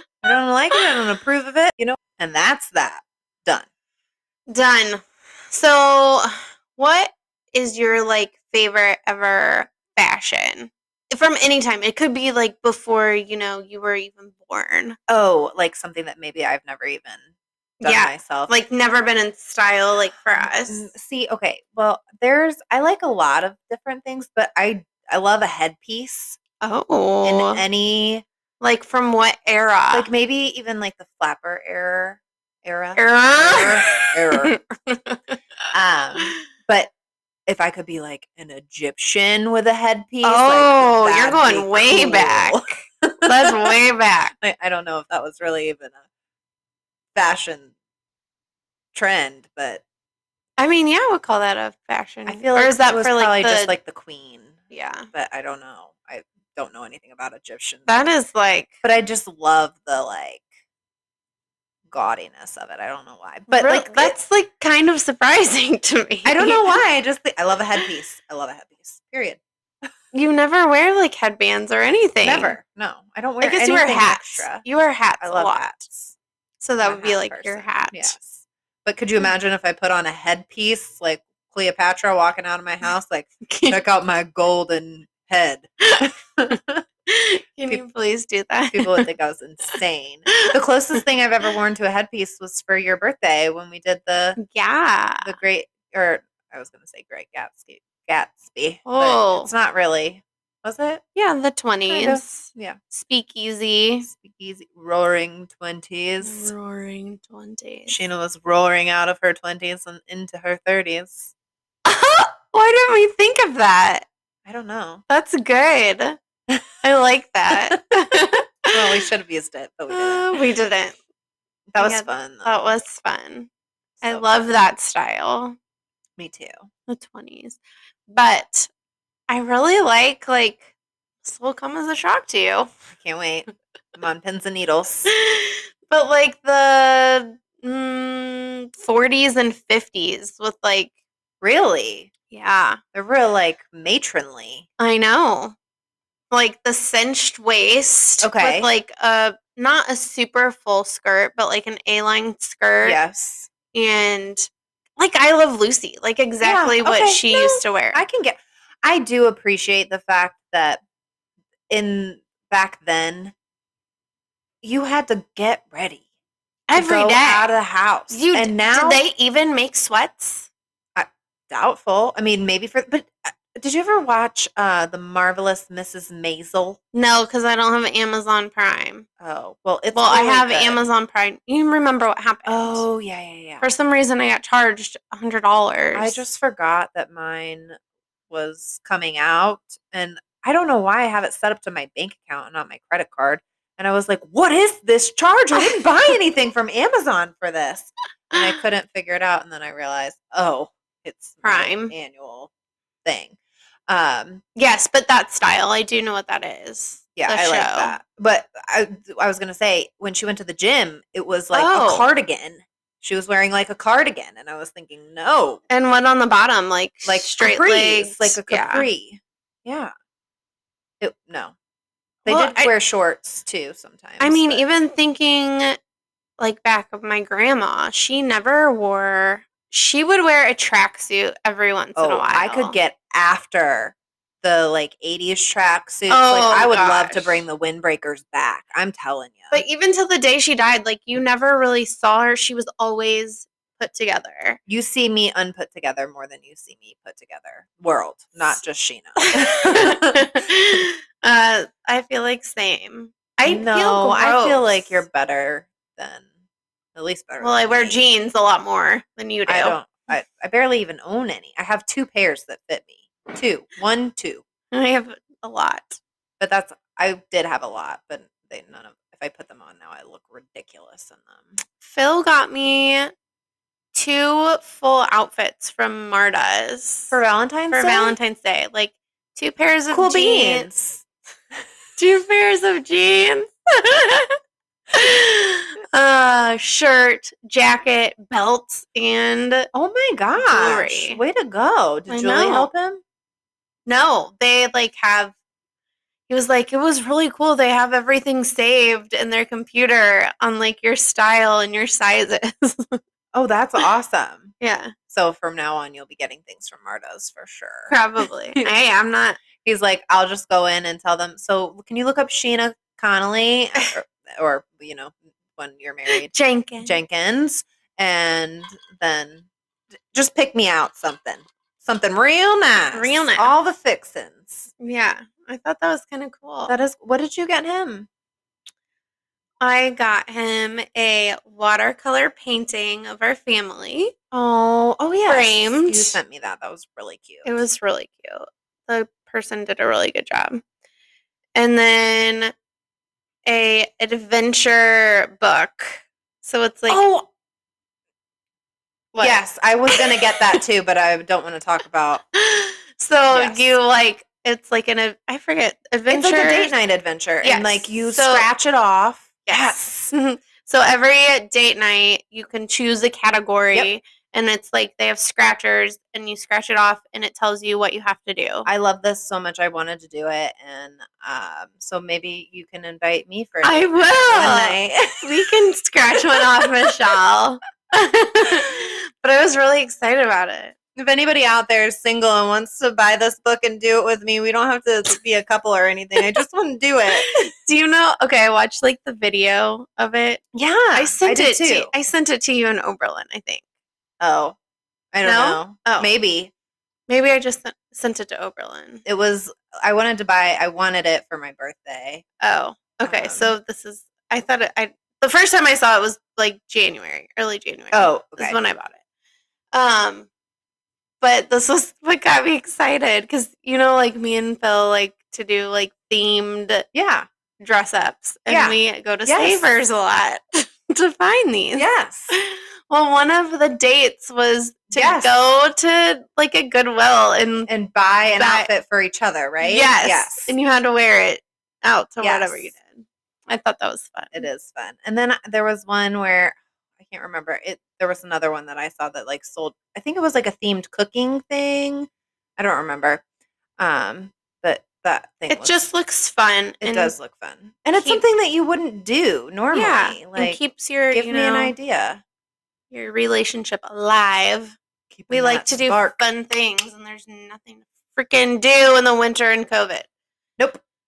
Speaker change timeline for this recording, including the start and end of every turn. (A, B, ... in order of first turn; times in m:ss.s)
0:00.2-0:03.7 A
0:04.5-0:15.0 B
0:15.1-0:17.2 A
0:17.8-0:20.9 B
0:17.8-0:18.5 A
0:20.4-0:26.4 A
0:26.6-0:27.6 B
0:27.2-0:28.2 A
0:28.6-0:30.1 B
0:29.9-0:34.6 A
0:33.0-0:35.4 B
0:35.7-0:36.9 A
0:37.5-0:43.7 A
0:40.2-0:42.6 B
0:43.2-0:44.3 B
0:44.4-0:46.0 A
0:47.1-0:47.7 A
0:48.9-0:49.8 A
0:50.6-0:53.7 B
0:52.3-0:57.9 A
0:54.7-0:55.1 B
0:57.9-0:58.8 B
0:58.8-1:00.4 A
1:01.9-1:04.1 A
1:03.5-1:06.8 B
1:06.2-1:09.9 A
1:10.1-1:12.6 B
1:12.2-1:14.6 A
1:13.4-1:15.6 B
1:15.2-1:16.1 A
1:16.6-1:18.2 B
1:16.8-1:26.8 A
1:23.5-1:23.8 B
1:27.1-1:29.1 B
1:28.7-1:34.4 A
1:34.4-1:35.4 B
1:35.2-1:41.0 A
1:38.8-1:39.5 B
1:41.1-1:44.1 B
1:41.9-1:42.8 A
1:44.0-1:46.5 A
1:46.2-1:48.0 B
1:47.9-1:51.3 A
1:51.8-1:54.1 B
1:54.4-1:55.0 A
1:55.1-1:56.2 B
1:56.8-1:59.0 B
1:58.7-2:00.4 A
1:59.9-2:01.0 B
2:01.7-2:02.7 A
2:01.8-2:03.5 B
2:04.0-2:04.5 A
2:04.0-2:05.6 B
2:06.2-2:06.6 A
2:06.9-2:08.7 B
2:09.3-2:10.6 B
2:11.2-2:12.7 B
2:12.9-2:15.1 A
2:15.1-2:20.9 B
2:21.4-2:22.1 A
2:22.3-2:22.8 B
2:22.9-2:24.7 A
2:24.8-2:25.6 B
2:26.3-2:33.0 B
2:28.2-2:28.7 A
2:32.8-2:33.5 A
2:33.7-2:38.0 B
2:36.4-2:40.8 A
2:41.7-2:43.3 A
2:44.6-2:46.0 A
2:46.7-2:47.5 B
2:46.7-2:49.0 A
2:48.1-2:50.5 B
2:51.0-2:56.8 A
2:56.9-2:59.1 B
2:59.2-3:00.8 A
2:59.9-3:02.8 B
3:02.4-3:03.6 A
3:03.6-3:06.2 B
3:05.9-3:07.8 A
3:08.3-3:22.5 A
3:15.5-3:15.8 B
3:21.4-3:21.9 B
3:23.0-3:23.4 A
3:23.9-3:24.4 A
3:24.6-3:28.0 B
3:27.2-3:35.6 A
3:31.5-3:32.1 B
3:35.7-3:38.9 B
3:37.0-3:39.9 A
3:41.0-3:41.5 A
3:42.2-3:44.7 A
3:42.2-3:42.7 B
3:44.2-3:45.8 B
3:46.4-3:52.8 B
3:52.0-3:59.6 A
3:56.1-3:57.4 B
3:59.5-4:04.6 B
4:04.7-4:10.4 A
4:09.2-4:15.0 B
4:13.4-4:16.3 A
4:16.9-4:18.0 A
4:17.4-4:19.8 B
4:19.5-4:24.4 A
4:24.7-4:26.0 B
4:26.4-4:31.6 A
4:31.8-4:33.1 B
4:33.9-4:37.2 B
4:37.1-4:38.2 A
4:37.7-4:40.7 B
4:39.9-4:41.0 A
4:42.0-4:44.3 B
4:44.9-4:49.7 B
4:49.7-4:53.0 A
4:50.4-4:51.2 B
4:52.1-4:52.7 B
4:53.8-4:55.3 B
4:56.3-5:03.0 B
5:03.3-5:04.5 A
5:04.6-5:04.9 B
5:05.1-5:08.0 A
5:07.9-5:09.4 B
5:09.6-5:19.5 A
5:16.1-5:17.0 B
5:20.1-5:24.7 A
5:22.9-5:23.5 B
5:24.8-5:26.7 B
5:26.7-5:28.1 A
5:29.6-5:34.1 B
5:34.3-5:37.5 A
5:35.2-5:36.2 B
5:37.4-5:40.6 B
5:41.6-5:42.5 B
5:43.4-5:47.0 B
5:46.9-5:47.3 A
5:49.1-5:50.6 B
5:49.2-5:52.2 A
5:52.4-5:56.7 B
5:53.3-5:53.7 A
5:56.1-5:59.9 A
5:57.4-5:58.5 B
5:59.4-6:08.7 B
6:08.6-6:15.5 A
6:13.6-6:20.7 B
6:16.3-6:16.9 A
6:20.9-6:27.3 A
6:27.2-6:30.4 B
6:30.5-6:31.9 A
6:30.9-6:33.6 B
6:34.2-6:34.6 A
6:35.1-6:36.5 A
6:35.2-6:36.1 B
6:37.1-6:39.0 B
6:39.0-6:42.2 A
6:42.4-6:49.0 B
6:43.0-6:43.5 A
6:47.9-6:48.6 A
6:49.7-6:50.3 B
6:51.2-6:56.9 B
6:56.9-6:57.3 A
6:57.6-7:07.7 B
6:58.5-6:59.6 A
7:01.8-7:02.3 A
7:04.9-7:05.3 A
7:07.7-7:10.5 A
7:08.3-7:08.7 B
7:09.6-7:14.5 B
7:12.2-7:12.7 A
7:14.3-7:23.2 A
7:23.8-7:25.8 A
7:25.5-7:27.1 B
7:26.8-7:32.2 A
7:28.0-7:28.2 B
7:29.7-7:31.7 B
7:32.9-7:34.8 B
7:35.1-7:36.2 A
7:35.3-7:40.1 B